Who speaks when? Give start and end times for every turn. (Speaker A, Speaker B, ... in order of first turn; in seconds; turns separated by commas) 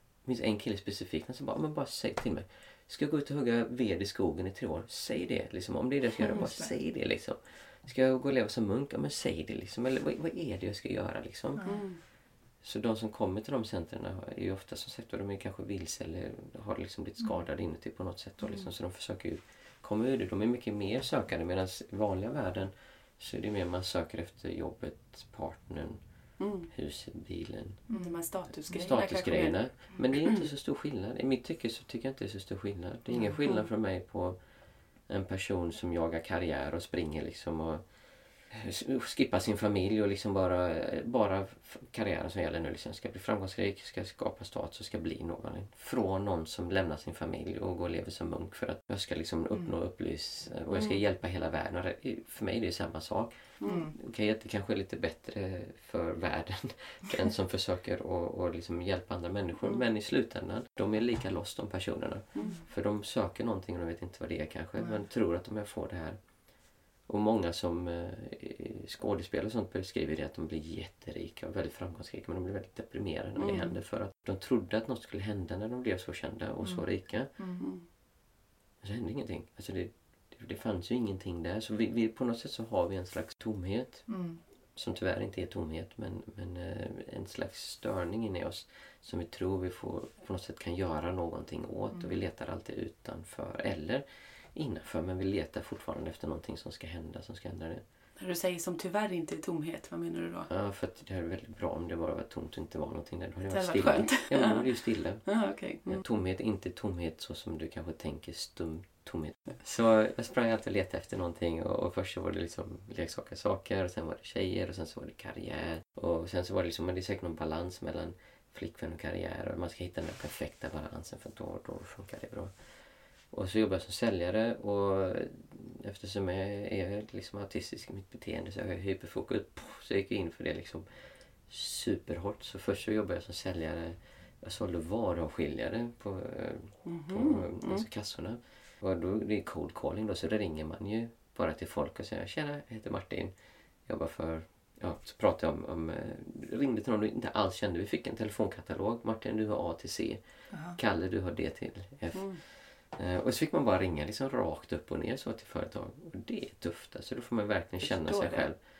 Speaker A: 0.2-11.9, Speaker B: 6.3-6.7, Speaker B: 11.5-11.9, Speaker C: 11.6-12.0, Speaker A: 12.6-26.1, Speaker C: 26.4-26.7, Speaker A: 26.7-34.4, Speaker B: 27.9-28.2, Speaker C: 27.9-30.4, Speaker B: 33.1-33.4, Speaker A: 35.0-66.2, Speaker C: 50.7-51.0, Speaker C: 53.6-53.9, Speaker B: 53.6-53.9, Speaker A: 67.0-77.3, Speaker C: 73.4-73.7, Speaker B: 76.6-77.7, Speaker C: 77.6-77.8, Speaker A: 78.8-84.1, Speaker B: 84.1-84.4, Speaker A: 84.7-97.8, Speaker C: 98.2-100.5, Speaker A: 100.5-105.3, Speaker C: 103.5-106.0, Speaker A: 105.8-122.7, Speaker A: 123.3-130.8, Speaker A: 131.4-143.3, Speaker C: 136.8-137.8, Speaker A: 143.8-158.6, Speaker B: 150.5-150.8, Speaker C: 152.1-152.4, Speaker C: 157.8-158.5